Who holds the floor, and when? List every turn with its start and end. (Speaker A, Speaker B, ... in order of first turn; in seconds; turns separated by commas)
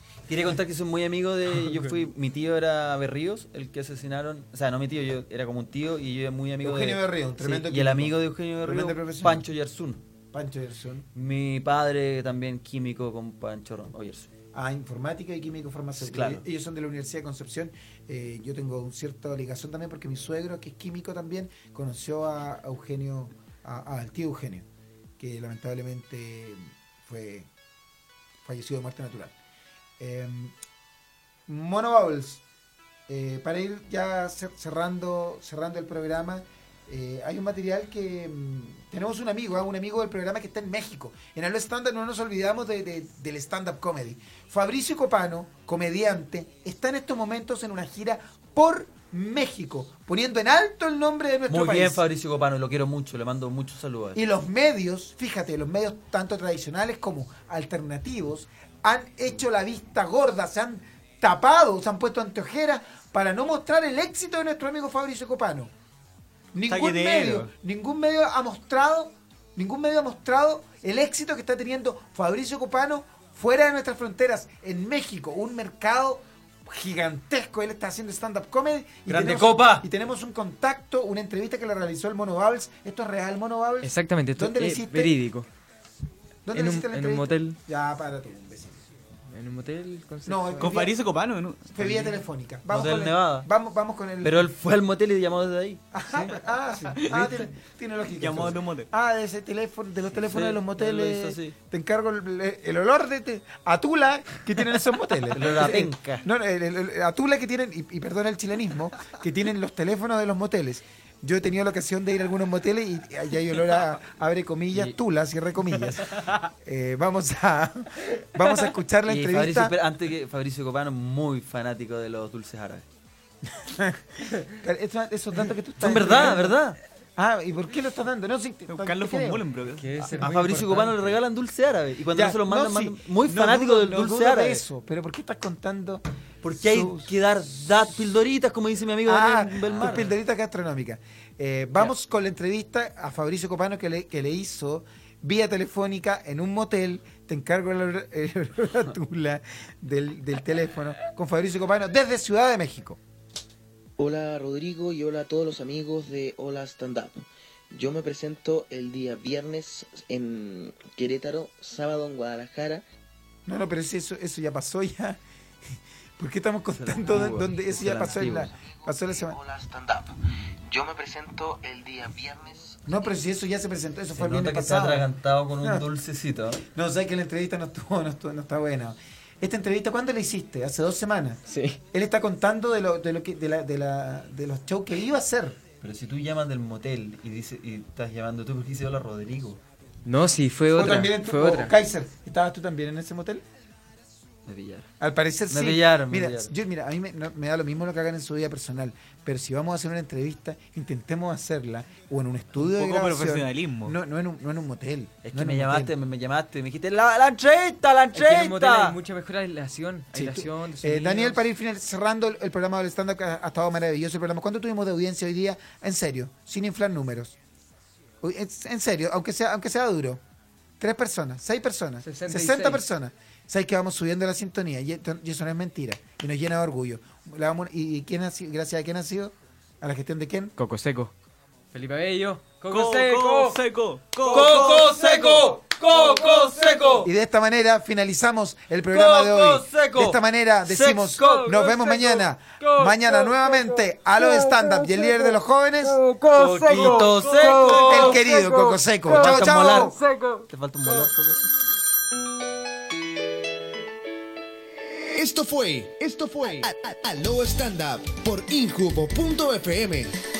Speaker A: 0.3-10.0, Speaker B: 1.6-2.0, Speaker C: 6.6-9.5, Speaker C: 10.3-11.1, Speaker A: 11.1-14.3, Speaker C: 14.5-24.7, Speaker A: 16.0-16.4, Speaker C: 25.2-27.5, Speaker C: 28.4-29.4, Speaker C: 30.0-30.5, Speaker C: 31.5-32.4, Speaker C: 33.1-52.0, Speaker A: 51.5-54.2, Speaker C: 54.1-65.7, Speaker C: 66.5-85.2, Speaker D: 66.7-67.5, Speaker A: 79.1-79.9, Speaker B: 83.8-85.5, Speaker C: 86.5-88.8, Speaker B: 86.5-87.6, Speaker B: 89.3-90.8, Speaker C: 90.3-91.0, Speaker D: 90.6-92.2, Speaker C: 91.7-94.5, Speaker A: 92.7-93.5, Speaker A: 94.2-95.8, Speaker C: 95.9-119.7, Speaker D: 97.1-97.4, Speaker D: 98.2-98.9, Speaker A: 100.2-101.6, Speaker A: 105.3-106.2, Speaker A: 119.1-122.9, Speaker C: 123.6-126.6, Speaker A: 125.8-126.8, Speaker C: 127.2-129.4, Speaker D: 128.7-130.1, Speaker B: 129.7-131.2, Speaker A: 130.2-134.6, Speaker C: 132.2-136.0, Speaker A: 136.4-140.1, Speaker C: 136.6-137.1, Speaker C: 139.1-153.0, Speaker E: 154.0-162.8, Speaker C: 163.5-165.2, Speaker C: 166.2-169.4, Speaker A: 166.7-168.5, Speaker E: 167.4-170.1, Speaker E: 170.7-173.0, Speaker C: 172.8-175.1, Speaker A: 174.1-176.6, Speaker C: 175.6-175.9, Speaker C: 176.7-185.6, Speaker B: 181.5-181.8, Speaker A: 185.8-189.6, Speaker B: 190.0-191.7, Speaker C: 190.7-193.4, Speaker A: 194.5-194.9, Speaker C: 195.0-205.9, Speaker A: 195.5-196.6, Speaker D: 202.6-204.0, Speaker A: 205.2-209.0, Speaker B: 208.1-211.5, Speaker C: 210.1-217.4, Speaker C: 218.2-220.2, Speaker C: 220.8-230.5, Speaker B: 222.0-222.8, Speaker B: 230.6-231.1, Speaker B: 231.7-233.6, Speaker D: 232.7-234.6, Speaker B: 234.3-237.1, Speaker A: 234.3-237.1, Speaker C: 237.0-246.0, Speaker A: 238.9-241.5, Speaker B: 241.2-245.3, Speaker B: 245.8-251.1, Speaker A: 246.3-248.3, Speaker D: 247.2-247.6, Speaker C: 247.7-250.0, Speaker A: 249.1-251.6, Speaker F: 255.1-260.1